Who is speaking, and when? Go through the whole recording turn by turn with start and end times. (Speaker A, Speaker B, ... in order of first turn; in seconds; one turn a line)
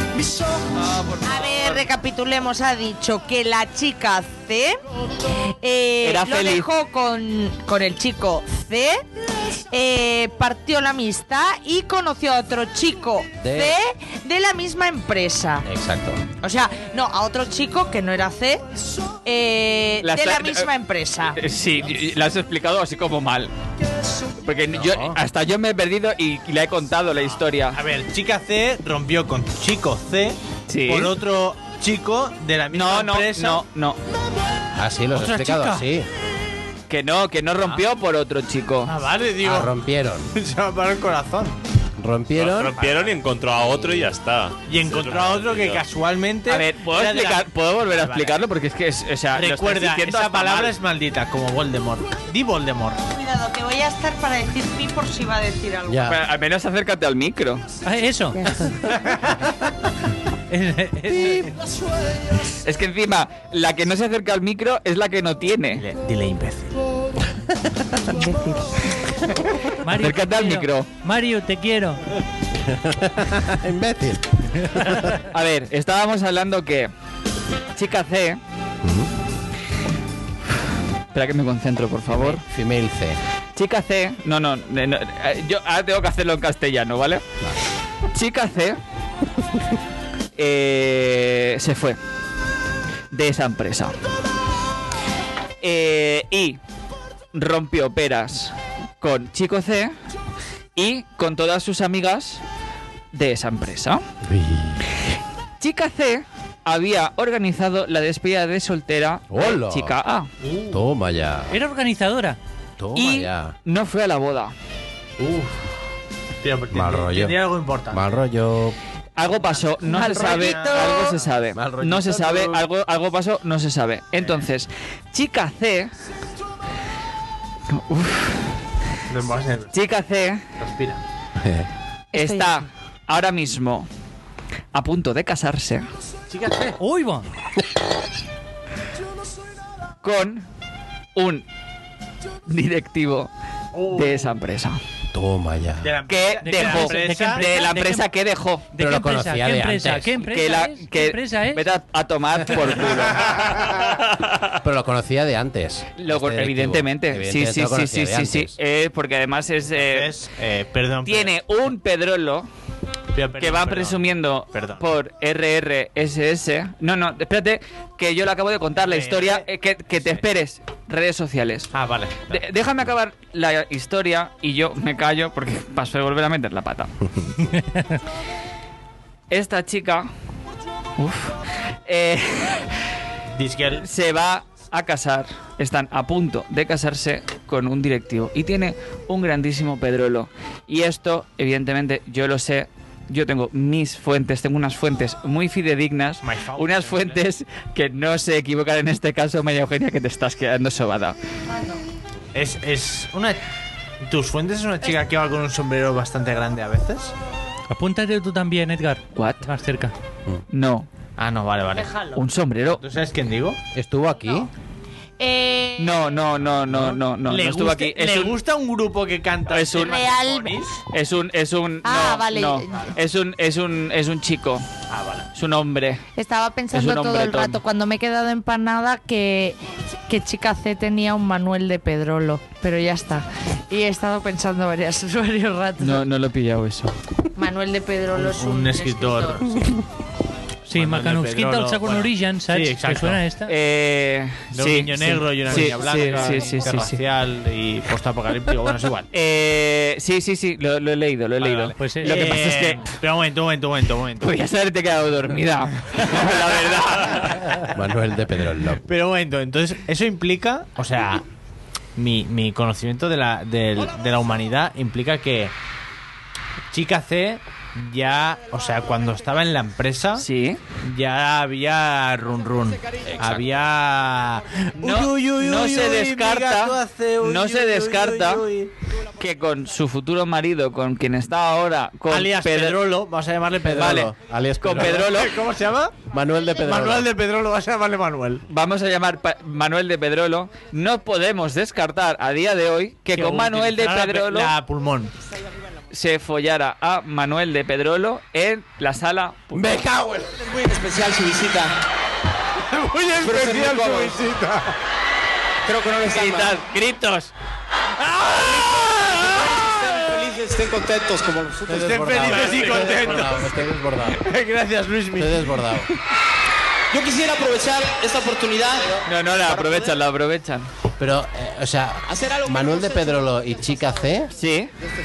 Speaker A: 0.9-1.6
Speaker B: 1.2-4.8
Speaker B: 5.6-9.0
Speaker A: 6.0-6.7
Speaker B: 9.7-15.6
Speaker C: 13.4-13.8
Speaker C: 15.6-16.2
Speaker B: 16.4-18.6
Speaker B: 19.2-21.4
Speaker A: 20.0-20.7
Speaker A: 21.4-23.5
Speaker A: 24.4-27.8
Speaker C: 24.7-25.2
Speaker D: 27.7-33.6
Speaker A: 30.7-31.1
Speaker A: 32.7-34.0
Speaker C: 34.8-36.1
Speaker D: 35.1-35.8
Speaker A: 36.9-38.9
Speaker D: 38.9-39.7
Speaker C: 39.4-40.3
Speaker D: 40.3-41.6
Speaker C: 42.0-42.8
Speaker E: 42.4-45.8
Speaker D: 42.7-43.2
Speaker C: 43.5-44.1
Speaker D: 44.7-48.4
Speaker A: 46.5-50.7
Speaker D: 49.3-53.0
Speaker B: 53.1-56.1
Speaker C: 55.9-56.2
Speaker A: 56.1-57.6
Speaker F: 57.8-58.5
Speaker F: 60.5-61.5
Speaker A: 62.6-65.8
Speaker D: 65.8-66.7
Speaker B: 68.2-68.7
Speaker F: 69.8-72.0
Speaker A: 70.0-70.9
Speaker C: 72.7-75.1
Speaker A: 75.3-76.9
Speaker A: 77.8-78.4
Speaker C: 78.8-79.1
Speaker A: 81.1-82.4
Speaker C: 82.1-83.2
Speaker A: 83.5-87.2
Speaker A: 88.1-88.8
Speaker A: 90.4-92.0
Speaker A: 93.1-94.0
Speaker A: 95.6-96.6
Speaker A: 97.3-99.9
Speaker A: 100.8-102.4
Speaker A: 103.1-104.0
Speaker C: 104.2-104.8
Speaker A: 105.6-110.3
Speaker C: 109.3-109.9
Speaker D: 110.4-110.8
Speaker C: 110.7-111.5
Speaker F: 111.5-112.4
Speaker C: 112.8-113.5
Speaker A: 112.9-114.5
Speaker D: 115.2-115.6
Speaker D: 116.4-118.0
Speaker C: 116.7-117.3
Speaker C: 117.9-118.7
Speaker A: 119.2-125.9
Speaker D: 119.3-121.1
Speaker B: 119.9-121.1
Speaker C: 121.5-122.6
Speaker A: 127.7-128.5
Speaker D: 129.1-129.7
Speaker A: 129.7-130.4
Speaker D: 130.6-131.0
Speaker C: 131.4-131.7
Speaker B: 132.1-132.6
Speaker A: 132.1-133.9
Speaker A: 134.7-135.8
Speaker D: 136.3-136.8
Speaker F: 136.8-137.2
Speaker A: 140.0-140.4
Speaker A: 141.1-141.4
Speaker A: 142.5-143.3
Speaker D: 143.7-144.3
Speaker A: 143.9-144.8
Speaker C: 145.1-145.9
Speaker D: 145.8-147.4
Speaker A: 146.1-148.7
Speaker F: 146.4-148.1
Speaker F: 148.7-151.7
Speaker C: 148.8-150.2
Speaker A: 150.2-153.8
Speaker C: 154.6-158.5
Speaker A: 156.0-160.1
Speaker D: 159.7-161.3
Speaker A: 161.0-162.5
Speaker D: 163.1-164.9
Speaker A: 163.4-171.7
Speaker D: 168.8-170.2
Speaker D: 171.7-172.4
Speaker A: 172.3-176.9
Speaker A: 179.3-180.1
Speaker A: 181.0-181.3
Speaker A: 181.9-182.7
Speaker D: 183.3-183.8
Speaker A: 183.8-201.2
Speaker D: 196.2-197.2
Speaker D: 202.3-203.4
Speaker D: 204.0-207.1
Speaker F: 207.7-209.9
Speaker A: 209.1-209.5
Speaker A: 210.5-210.9
Speaker D: 211.2-211.9
Speaker B: 211.7-212.2
Speaker A: 212.2-212.8
Speaker D: 212.8-213.6
Speaker C: 213.7-214.5
Speaker B: 215.2-216.2
Speaker A: 215.8-218.3
Speaker D: 216.7-220.7
Speaker A: 219.5-220.0
Speaker B: 219.8-220.5
Speaker A: 220.9-224.6
Speaker B: 221.8-222.8
Speaker D: 224.9-225.3
Speaker A: 225.3-226.0
Speaker B: 226.2-236.0
Speaker A: 226.7-227.6
Speaker A: 235.8-236.9
Speaker B: 237.3-239.4
Speaker D: 238.2-239.5
Speaker F: 240.7-243.5
Speaker D: 240.7-243.2
Speaker A: 243.5-247.0
Speaker D: 244.5-249.1
Speaker A: 249.1-252.8
Speaker D: 251.4-254.3
Speaker F: 251.8-252.4
Speaker A: 254.2-257.6
Speaker C: 257.7-258.8
Speaker D: 258.8-261.2
Speaker D: 261.9-265.5
Speaker D: 266.7-270.2
Speaker A: 270.2-270.6
Speaker D: 270.8-278.7
Speaker C: 273.0-273.5
Speaker A: 274.8-278.4
Speaker A: 279.2-282.8
Speaker D: 282.1-284.1
Speaker C: 283.6-285.1
Speaker A: 283.8-284.1
Speaker A: 284.6-285.4
Speaker D: 284.7-288.4
Speaker C: 286.1-287.1
Speaker A: 288.5-294.5
Speaker D: 293.1-295.1
Speaker A: 295.9-299.8
Speaker C: 299.5-300.4
Speaker D: 302.7-304.7
Speaker A: 305.8-307.3
Speaker C: 306.0-306.4
Speaker G: 309.9-311.7
Speaker C: 311.7-314.2
Speaker D: 311.7-315.9
Speaker C: 315.1-315.9
Speaker G: 316.9-319.9
Speaker A: 319.1-320.7
Speaker C: 321.0-324.3
Speaker G: 322.1-323.0
Speaker A: 324.4-324.7